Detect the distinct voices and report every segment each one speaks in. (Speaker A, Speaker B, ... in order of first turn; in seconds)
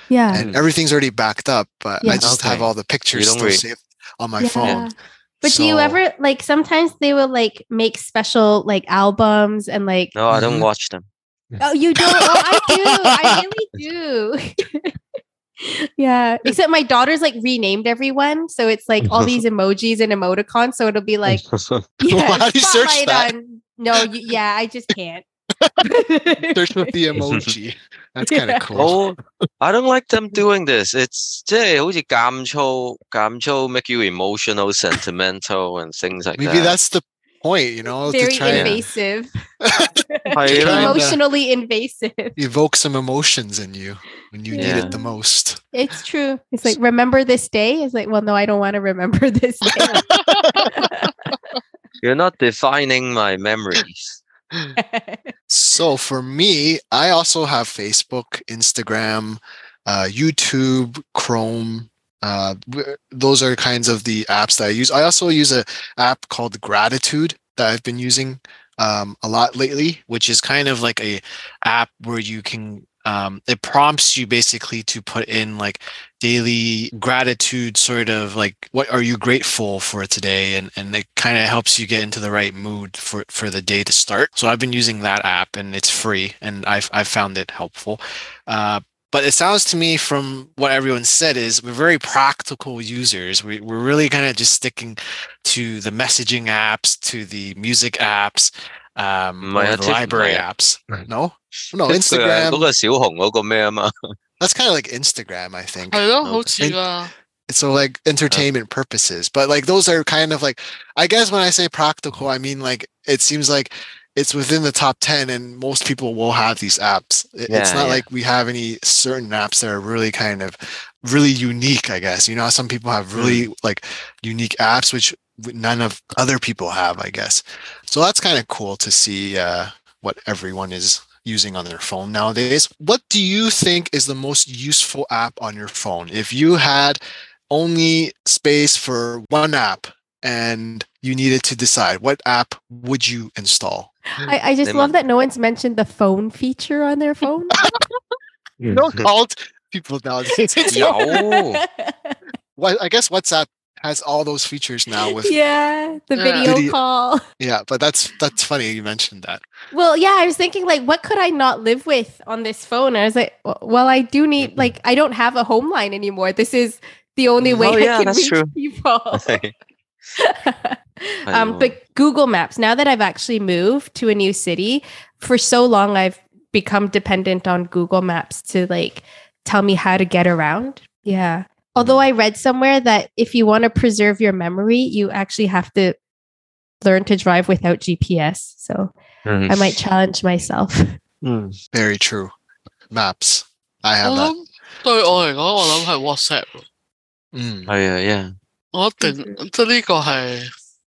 Speaker A: 0.1-0.4, 2.0-2.3, 4.4-10.1, 11.6-14.9, 15.6-21.4, 22.0-25.2, 25.8-26.9, 28.2-28.7, 38.0-39.3, 40.0-42.4, 44.5-45.1, 45.7-50.1, 50.6-51.1, 54.8-55.3, 144.2-147.5, 150.6-152.2, 155.1-157.2, 159.7-169.4, 170.2-186.0, 186.8-188.9, 189.5-191.0, 199.0-199.3
Speaker B: 0.3-4.9, 5.4-6.0, 10.3-10.7, 12.0-12.7, 22.1-23.3, 25.6-25.9, 26.5-29.0, 36.4-38.9, 39.7-41.2, 42.4-45.6, 49.9-50.5, 55.5-102.7, 104.4-106.1, 107.5-144.3, 148.7-151.1, 152.6-155.4, 156.4-156.8, 157.4-159.4, 191.7-192.3, 192.9-194.3, 195.1-195.8, 197.3-197.7
Speaker C: 0.3-0.6, 2.0-3.6, 10.1-11.1, 19.0-19.4, 21.3-21.8, 28.7-36.8, 38.5-38.8, 40.3-41.0, 44.5-44.9, 52.0-54.2, 99.4-100.4, 101.9-103.9, 106.2-106.6, 117.5-118.0, 123.1-123.4, 144.6-145.0, 148.6-149.1, 150.7-151.6, 167.4-168.5, 169.2-169.5, 171.2-171.8, 181.8-182.0, 189.2-189.8, 191.2-191.6, 197.7-198.3
Speaker D: 50.2-50.8, 105.9-107.1, 156.2-156.5, 194.0-196.6, 198.7-200.5